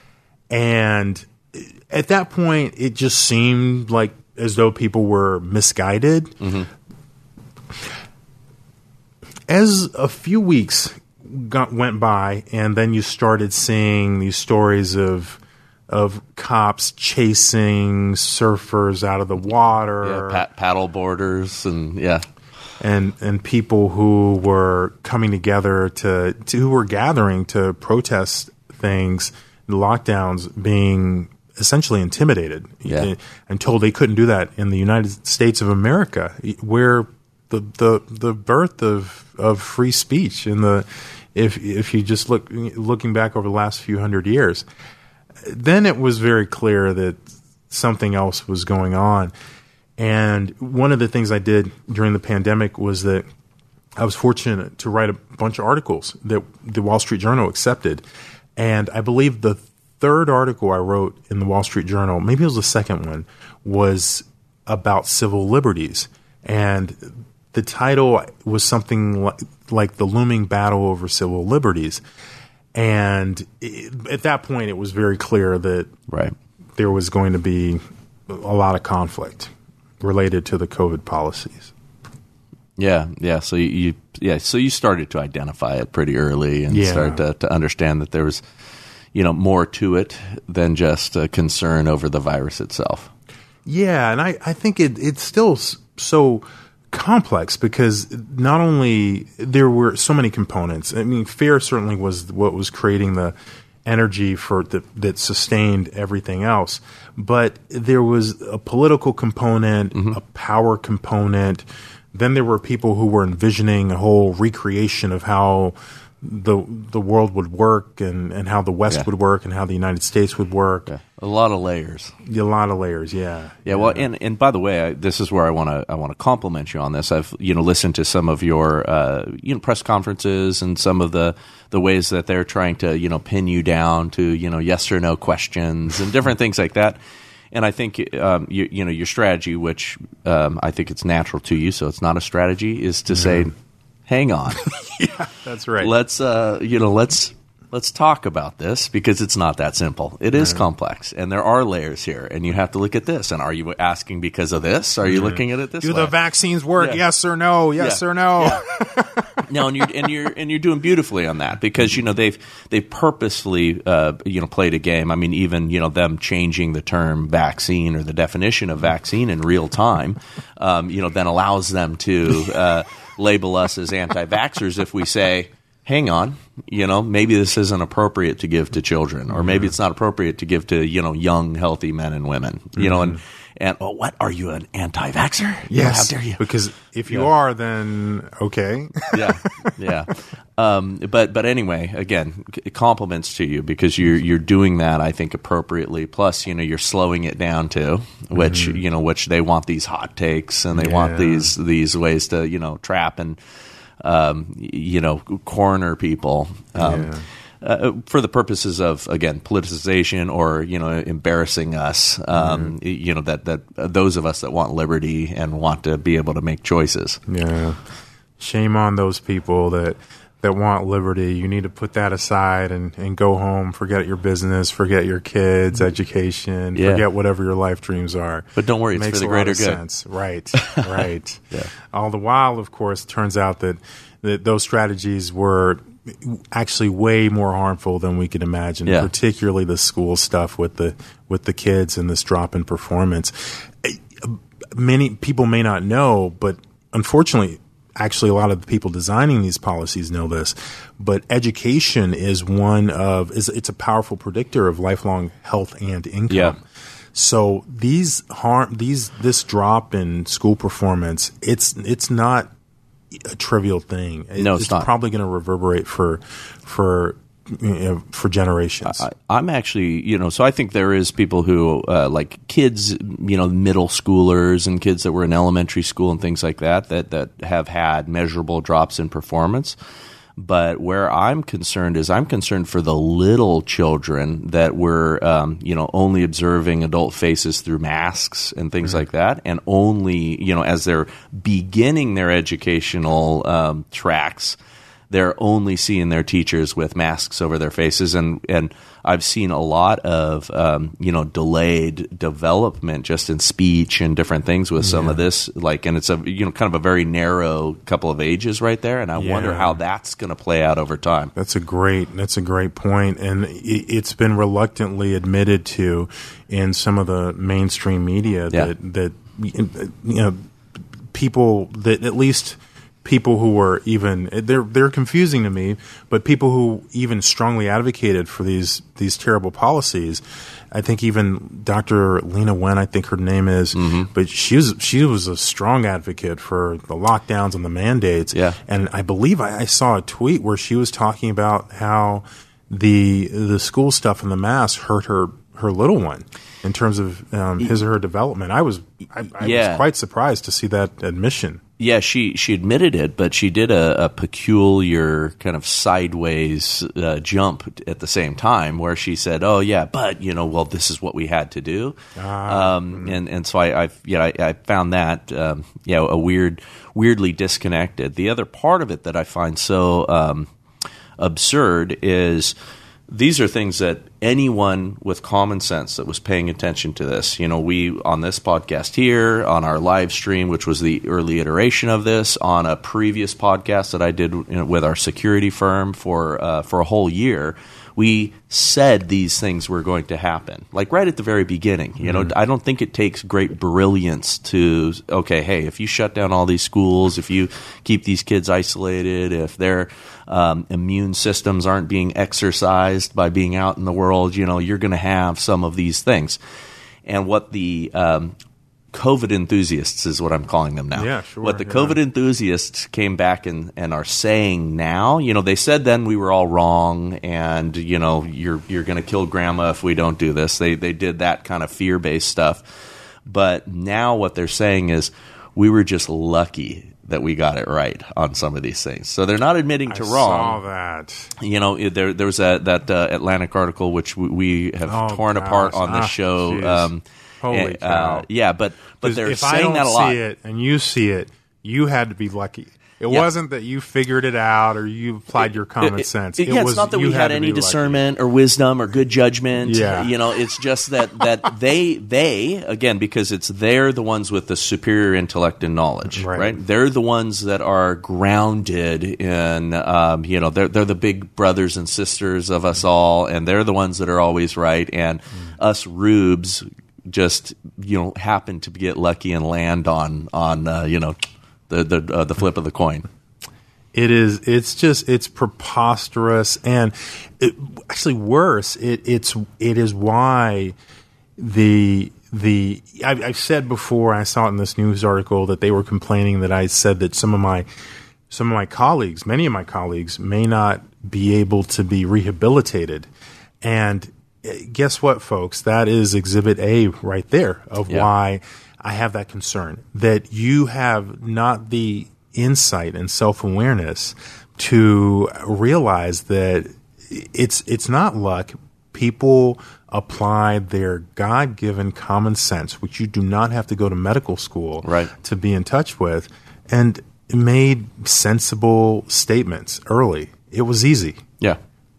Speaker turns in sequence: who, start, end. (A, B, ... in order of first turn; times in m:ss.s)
0:00.5-0:06.4 A
0:06.4-0:06.7 B
0:09.5-0:20.4 A
0:20.0-0:22.3 B
0:22.8-0:44.6 A
0:45.4-0:49.3 A
0:50.0-0:53.2 A
0:54.0-0:58.0 A
0:58.6-1:12.0 A
1:12.7-1:15.9 A
1:16.1-1:16.4 B
1:16.8-1:21.7 A
1:22.8-1:28.4 B
1:26.7-1:27.2 A
1:29.1-1:33.1 B
1:33.6-2:00.9 A
2:00.9-2:02.1 B
2:02.2-2:04.1 A
2:03.7-2:17.0 B
2:17.5-2:23.5 B
2:23.1-2:23.5 A
2:24.1-2:24.8 B
2:24.6-2:25.9 A
2:25.8-2:36.1 B
2:30.3-2:30.6 A
2:35.0-2:39.9 A
2:37.8-2:38.6 B
2:39.4-3:06.4 B
2:59.3-2:59.8 A
3:02.8-3:03.2 A
3:05.7-3:09.7 A
3:09.1-3:23.4 B
3:18.3-3:18.8 A
3:20.7-3:21.5 A
3:24.0-3:37.2 B
3:26.8-3:27.2 A
3:32.3-3:32.7 A
3:37.3-3:37.8 A
3:38.4-4:16.6 A
3:46.8-3:47.0 B
3:48.6-3:49.8 B
3:50.6-3:51.0 B
4:16.3-4:16.6 B
4:17.1-4:22.5 A
4:23.1-4:29.0 A
4:24.4-4:24.9 B
4:28.8-4:39.8 B
4:40.4-4:54.6 B
4:55.1-5:11.3 B
5:04.8-5:05.2 A
5:09.2-5:09.8 A
5:11.4-5:20.4 A
5:21.1-5:51.6 A
5:33.8-5:34.1 B
5:38.3-5:38.6 B
5:49.4-5:49.8 B
5:51.8-6:02.0 B
6:02.2-6:03.2 A
6:02.5-6:10.5 B
6:11.2-6:12.6 B
6:13.1-6:46.4 B
6:32.0-6:32.3 A
6:47.0-6:48.4 B
6:48.9-7:10.6 B
6:50.9-6:52.0 A
7:09.9-7:11.3 A
7:11.4-7:20.2 B
7:14.9-7:18.3 A
7:19.0-7:28.0 A
7:25.8-7:51.2 B
7:29.6-7:30.1 A
7:36.1-7:36.6 A
7:51.7-7:53.1 B
7:53.9-8:00.8 A
8:01.4-8:07.7 A
8:08.3-8:13.1 A
8:13.6-8:41.2 A
8:34.8-8:35.1 B